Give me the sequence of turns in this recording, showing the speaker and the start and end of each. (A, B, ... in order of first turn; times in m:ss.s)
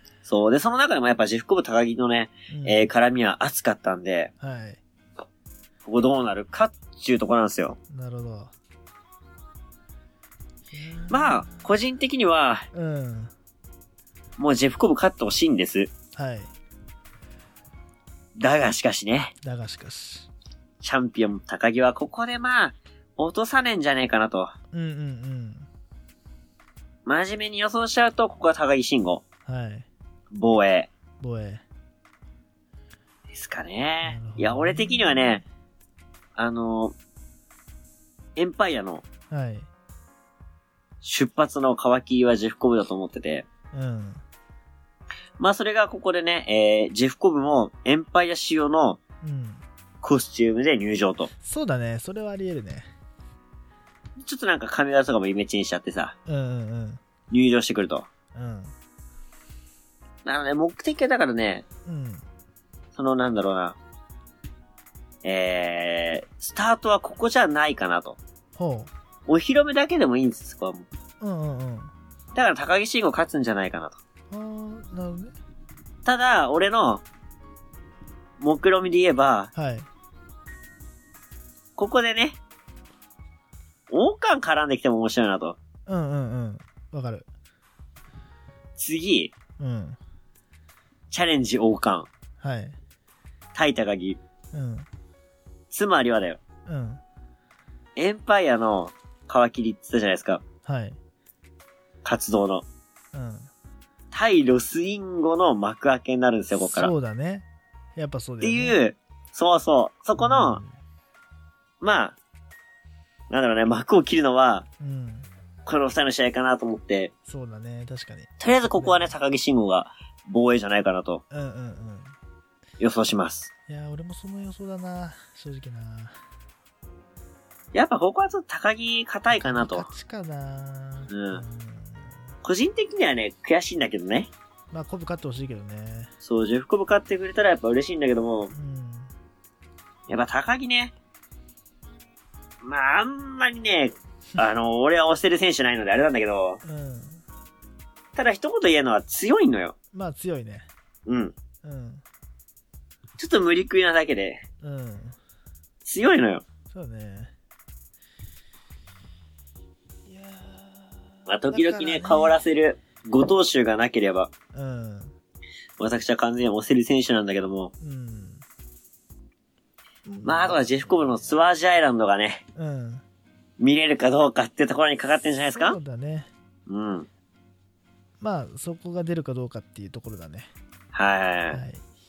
0:00.2-0:04.3 A
0:02.5-0:02.9 B
0:04.4-0:04.8 B
0:05.8-0:07.8 A
0:07.9-0:08.5 B
0:10.7-0:11.7 B
0:11.1-0:12.6 A
0:12.7-0:13.3 B
0:14.4-0:15.9 A
0:16.1-0:16.5 B
0:18.4-0:19.3 A
0:19.4-0:20.3 B
0:20.8-0:24.5 A
0:24.7-0:25.7 B
0:27.0-0:29.2 A
0:29.4-0:29.9 B
0:30.3-0:30.9 A
0:31.2-0:31.6 B
0:33.3-0:35.4 A
0:34.0-0:35.4 B
0:36.4-0:37.0 A
0:38.4-0:39.0 A
0:39.3-0:39.7 B
0:41.0-0:43.4 A
0:43.7-0:44.2 B
0:45.4-0:49.0 A
0:49.2-0:49.6 B
0:50.0-0:51.3 A
0:51.4-0:52.9 B
0:54.2-0:56.1 A
0:56.3-0:57.0 B
0:57.3-0:58.1 A
0:58.3-0:58.7 B
1:00.2-1:01.6 A
1:01.8-1:02.2 B
1:02.9-1:03.8 A
1:05.2-1:08.2 A
1:08.6-1:08.9 B
1:09.3-1:10.9 A
1:11.2-1:11.9 B
1:12.3-1:14.0 A
1:14.3-1:15.3 B
1:16.0-1:17.0 A
1:18.4-1:19.5 A
1:19.5-1:19.8 B
1:21.8-1:22.4 A
1:23.9-1:25.6 A
1:25.9-1:27.2 B
1:28.8-1:29.3 A
1:29.6-1:30.0 B
1:31.1-1:32.1 A
1:32.4-1:32.8 B
1:33.5-1:34.2 A
1:34.5-1:34.9 B
1:35.7-1:36.4 A
1:36.7-1:37.0 B
1:38.0-1:40.4 A
1:40.6-1:41.0 B
1:42.0-1:42.6 A
1:43.1-1:43.5 B
1:44.1-1:46.9 A
1:46.6-1:47.4 B
1:48.0-1:48.8 B
1:48.4-1:50.6 A
1:50.2-1:50.8 B
1:51.8-1:52.2 A
1:53.3-1:54.6 A
1:54.8-1:55.3 B
1:55.6-1:57.1 A
1:57.3-1:59.1 B
1:58.4-2:01.2 A
2:01.3-2:02.1 B
2:02.8-2:03.5 A
2:03.7-2:06.2 B
2:07.7-2:09.9 A
2:09.3-2:12.2 B
2:11.1-2:11.4 A
2:12.4-2:14.3 A
2:14.7-2:16.1 B
2:16.2-2:18.5 A
2:18.5-2:19.1 B
2:20.1-2:20.9 A
2:22.6-2:26.6 A
2:26.6-2:27.2 B
2:28.1-2:29.7 A
2:29.9-2:30.7 B
2:31.0-2:31.3 A
2:31.6-2:32.0 B
2:33.2-2:34.4 A
2:34.6-2:35.1 B
2:35.8-2:36.4 A
2:36.7-2:37.3 B
2:40.0-2:42.4 B
2:41.3-2:44.3 A
2:44.5-2:45.1 B
2:45.8-2:47.7 A
2:47.8-2:48.4 B
2:50.0-2:51.3 B
2:50.2-2:52.4 A
2:52.6-2:53.0 B
2:53.6-2:55.8 A
2:55.5-2:56.3 B
2:56.7-2:57.1 A
2:58.2-3:00.5 B
3:00.9-3:01.6 A
3:01.5-3:01.8 B